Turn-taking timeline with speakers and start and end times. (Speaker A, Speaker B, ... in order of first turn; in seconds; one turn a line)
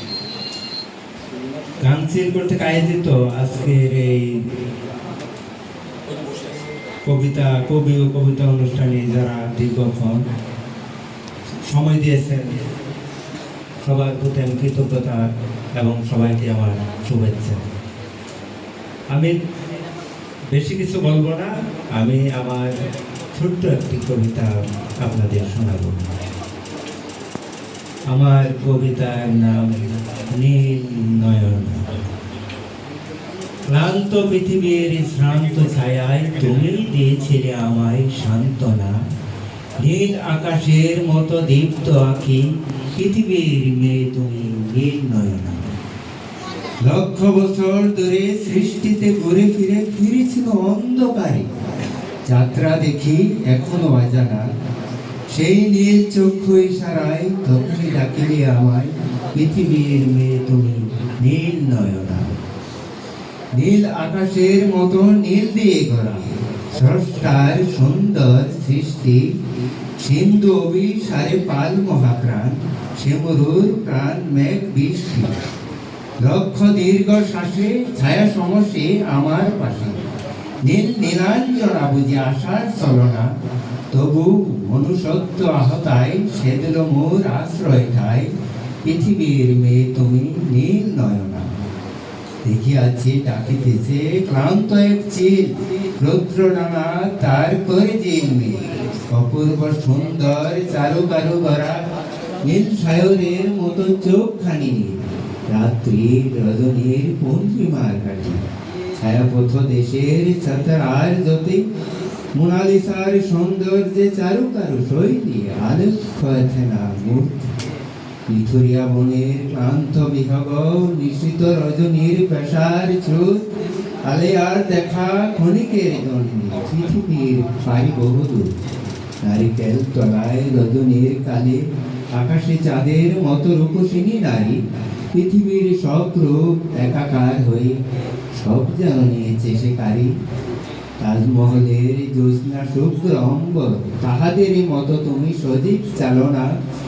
Speaker A: 1.8-4.4
Speaker A: 7.0-10.2
Speaker A: 11.7-12.6
Speaker A: 13.8-15.2
Speaker A: 15.8-17.6
Speaker A: 20.5-22.7
Speaker A: 23.3-26.0
Speaker A: 28.1-29.8
Speaker A: 30.4-31.9
Speaker A: 33.7-38.9
Speaker A: 39.8-42.4
Speaker A: 43.0-45.7
Speaker A: 46.8-51.5
Speaker A: 52.3-54.4
Speaker A: 55.3-62.3
Speaker A: 63.5-69.2
Speaker A: 70.0-75.3
Speaker A: 76.2-80.0
Speaker A: 80.7-83.3
Speaker A: 83.9-88.3
Speaker A: 88.8-91.5
Speaker A: 92.5-101.8
Speaker A: 102.4-105.0
Speaker A: 105.5-108.4
Speaker A: 109.0-111.6
Speaker A: 112.3-117.5
Speaker A: 118.3-123.4
Speaker A: 124.1-128.5
Speaker A: 129.2-131.6
Speaker A: 132.1-134.6
Speaker A: 135.1-137.8
Speaker A: 138.4-140.1
Speaker A: 141.0-146.5